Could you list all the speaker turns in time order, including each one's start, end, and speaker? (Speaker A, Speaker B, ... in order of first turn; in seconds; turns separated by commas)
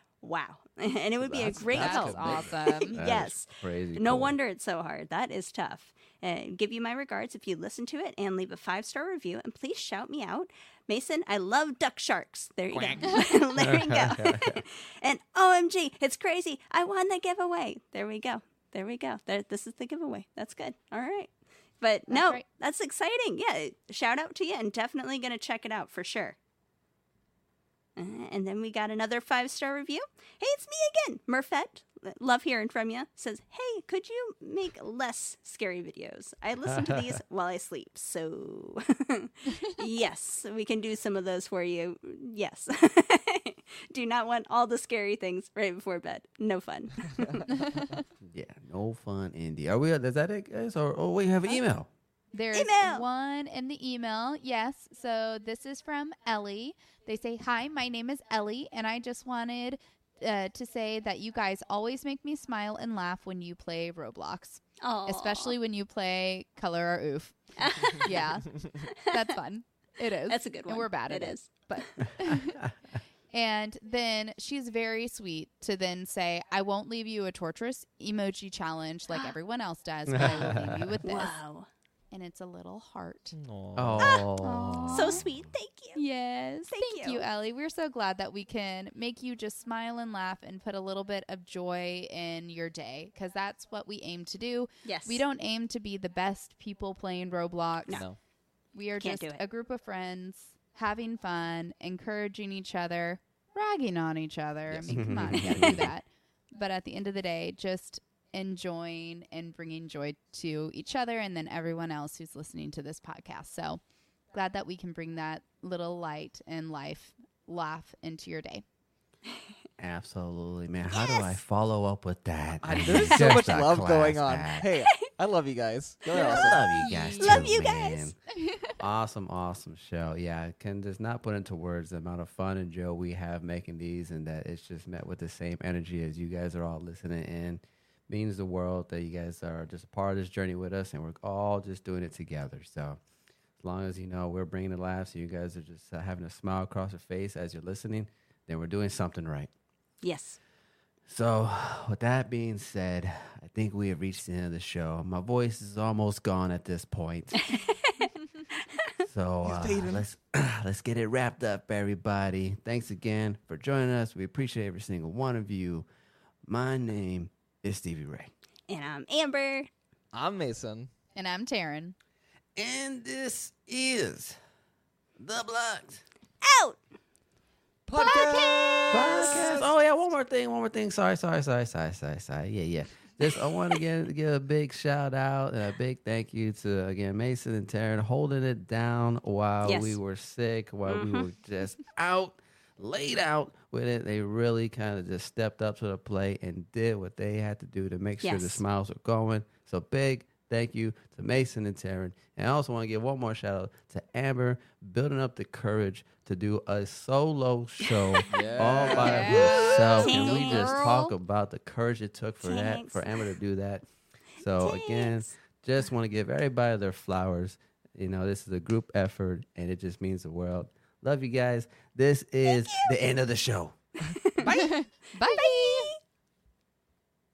Speaker A: 0.2-26.4, Speaker B: 1.2-4.4, Speaker C: 1.6-3.0, Speaker D: 1.8-2.4, Speaker D: 12.7-13.2, Speaker B: 13.5-14.6, Speaker C: 22.1-22.4, Speaker A: 27.9-47.4, Speaker B: 36.6-37.2, Speaker C: 47.5-48.0, Speaker B: 48.2-51.9, Speaker C: 52.3-72.6, Speaker A: 52.5-53.0, Speaker A: 64.8-65.5, Speaker A: 67.6-68.2, Speaker A: 68.8-69.3, Speaker A: 70.3-71.6, Speaker B: 72.2-72.7, Speaker C: 73.3-81.3, Speaker A: 79.1-79.3, Speaker B: 80.1-81.0, Speaker A: 81.0-81.7, Speaker C: 82.1-83.3, Speaker D: 83.3-84.1, Speaker B: 83.8-85.3, Speaker A: 84.0-84.2, Speaker C: 84.4-85.2, Speaker A: 84.9-86.0, Speaker C: 85.9-98.0, Speaker A: 86.7-87.2, Speaker A: 94.8-95.2, Speaker D: 97.9-98.2, Speaker C: 98.7-113.8, Speaker A: 99.0-99.4, Speaker D: 104.7-105.8, Speaker B: 104.9-105.8, Speaker C: 114.3-118.6, Speaker B: 119.8-124.7, Speaker A: 120.9-121.4, Speaker D: 122.6-126.6, Speaker C: 126.1-127.5, Speaker A: 126.2-126.6, Speaker B: 126.2-128.2, Speaker A: 127.2-128.1, Speaker C: 128.4-128.7, Speaker B: 128.8-143.0, Speaker B: 143.6-149.5, Speaker A: 150.0-150.4, Speaker B: 151.1-157.4, Speaker A: 157.4-158.1, Speaker B: 159.0-165.9, Speaker D: 159.4-160.0, Speaker B: 166.4-168.3, Speaker A: 168.7-169.7, Speaker D: 170.1-170.9, Speaker C: 171.1-171.9, Speaker B: 172.5-174.3, Speaker B: 175.2-176.0, Speaker A: 176.4-176.8, Speaker D: 177.9-179.7, Speaker A: 177.9-179.5, Speaker B: 178.9-213.8, Speaker A: 189.6-190.0, Speaker A: 190.8-191.3, Speaker A: 198.2-198.6, Speaker A: 207.8-208.3, Speaker D: 208.3-209.5, Speaker C: 208.5-211.1, Speaker A: 209.0-211.1, Speaker A: 212.4-213.1, Speaker B: 214.4-223.7, Speaker A: 214.6-215.3, Speaker A: 222.4-222.9, Speaker A: 224.1-224.6, Speaker C: 224.4-225.9, Speaker A: 225.2-226.0